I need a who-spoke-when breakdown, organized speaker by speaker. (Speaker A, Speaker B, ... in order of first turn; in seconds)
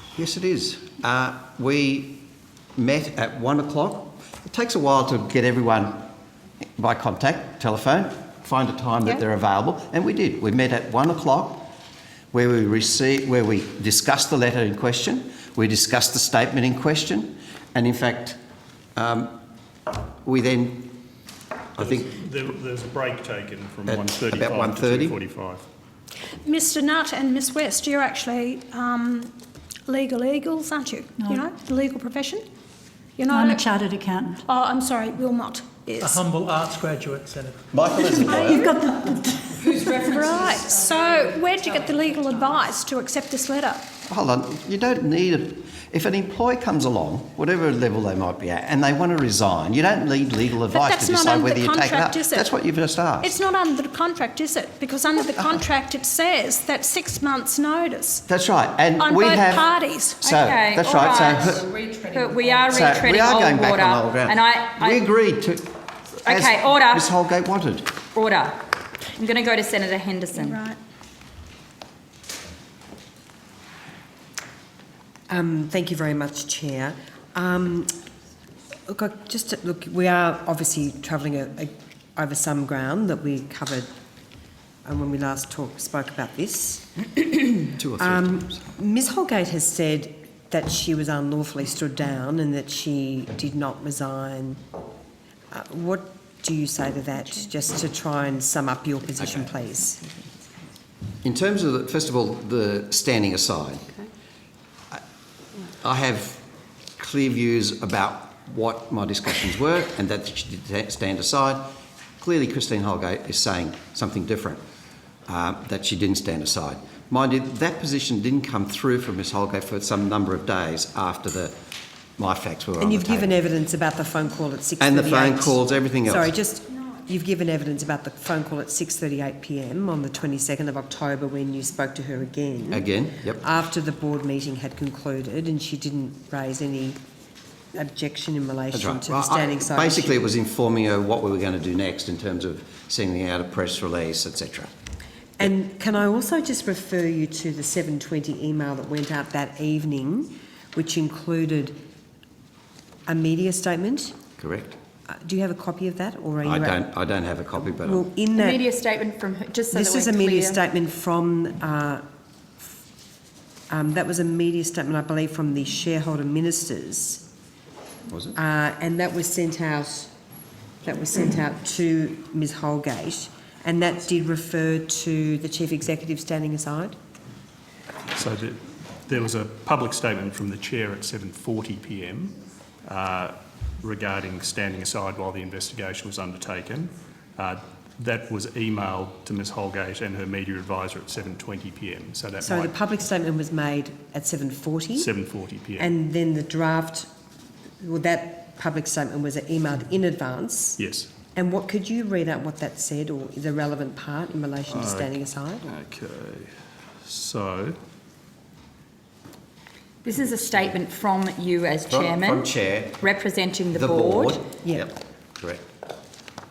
Speaker A: 0.1-6.1, 6.8-11.7, 12.3-18.4, 18.9-19.4, 20.2-21.0, 21.8-22.2, 23.9-25.2, 37.7-38.7, 44.1-53.4, 58.3-61.7, 62.7-68.0, 87.7-88.7, 99.2-99.5, 101.2-103.8, 105.8-106.5, 107.0-114.6, 115.3-121.5, 122.2-123.4, 124.8-126.3, 132.7-133.4, 138.7-144.7, 154.4-154.8, 156.4-158.1, 168.1-168.3, 211.9-213.0, 213.7-215.6
Speaker B: 21.8-25.6, 178.1-192.7, 194.9-195.9, 200.8-201.1, 204.7-205.1, 205.7-206.5, 207.0-207.8
Speaker C: 26.4-29.3, 29.9-32.4, 33.2-33.8, 34.3-36.2, 38.3-38.9, 39.6-43.9, 50.7-52.5, 53.2-58.2, 59.0-60.4, 70.3-70.8
Speaker D: 31.2-31.4, 33.3-34.4, 38.5-39.4
Speaker E: 36.0-38.7
Speaker F: 60.2-65.0, 66.2-67.1, 68.1-70.6, 158.3-160.6, 210.0-214.4
Speaker G: 75.3-77.9, 78.9-83.9, 84.8-87.0, 88.0-94.6, 95.5-100.0, 122.8-132.8, 133.4-137.0, 137.7-140.3, 145.4-151.8, 153.1-154.2, 155.1-156.8, 157.7-158.6, 159.7-162.0, 163.7-167.2, 168.3-170.1, 170.8-176.9, 192.4-195.1, 195.8-197.1, 197.8-200.8, 201.3-205.7, 214.6-214.9